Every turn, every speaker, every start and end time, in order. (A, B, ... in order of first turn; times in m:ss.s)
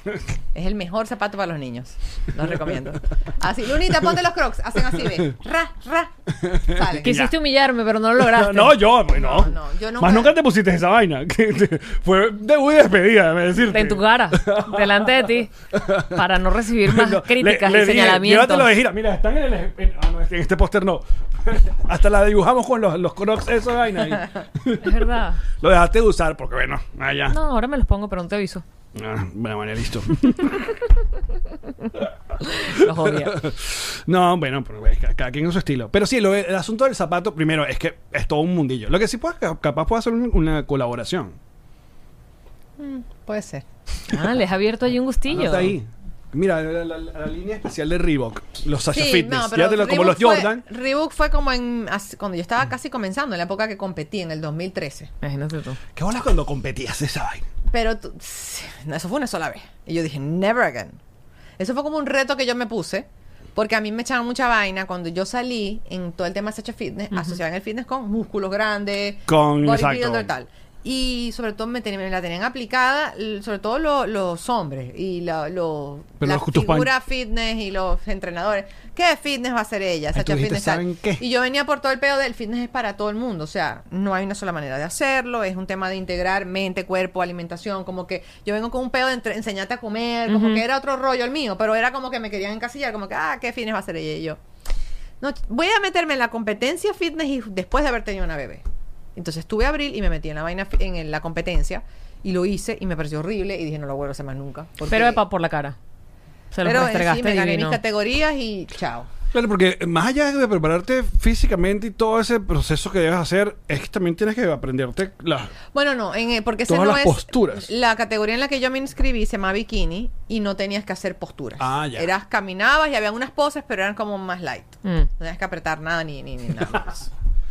0:00.5-0:07.2 A
0:06.4-0:07.3 B
0:07.0-0:08.8 C
0:08.2-0:16.2 B
0:09.1-0:10.4 A
0:13.7-0:18.7 C
0:16.8-0:25.0 B
0:24.8-0:25.4 C
0:25.6-0:27.4 B
0:27.3-0:28.6 C
0:28.9-0:30.8 B
0:32.4-0:33.4 C
0:32.6-0:41.4 B
0:42.8-0:43.6 A
0:44.1-0:45.7 C
0:45.3-0:50.6 B
0:48.9-0:55.1 A
0:55.2-0:55.8 C
0:56.0-0:57.4 B
0:57.7-1:01.0 A
1:01.6-1:34.4 A
1:07.1-1:07.4 C
1:09.3-1:10.3 B
1:16.2-1:16.9 B
1:20.1-1:21.2 B
1:30.3-1:30.6 C
1:35.2-1:45.2 A
1:44.9-1:45.8 C
1:46.5-1:47.8 C
1:46.6-1:49.1 A
1:49.3-1:55.5 B
1:55.7-2:07.1 A
1:56.7-1:57.7 B
2:01.6-2:02.1 B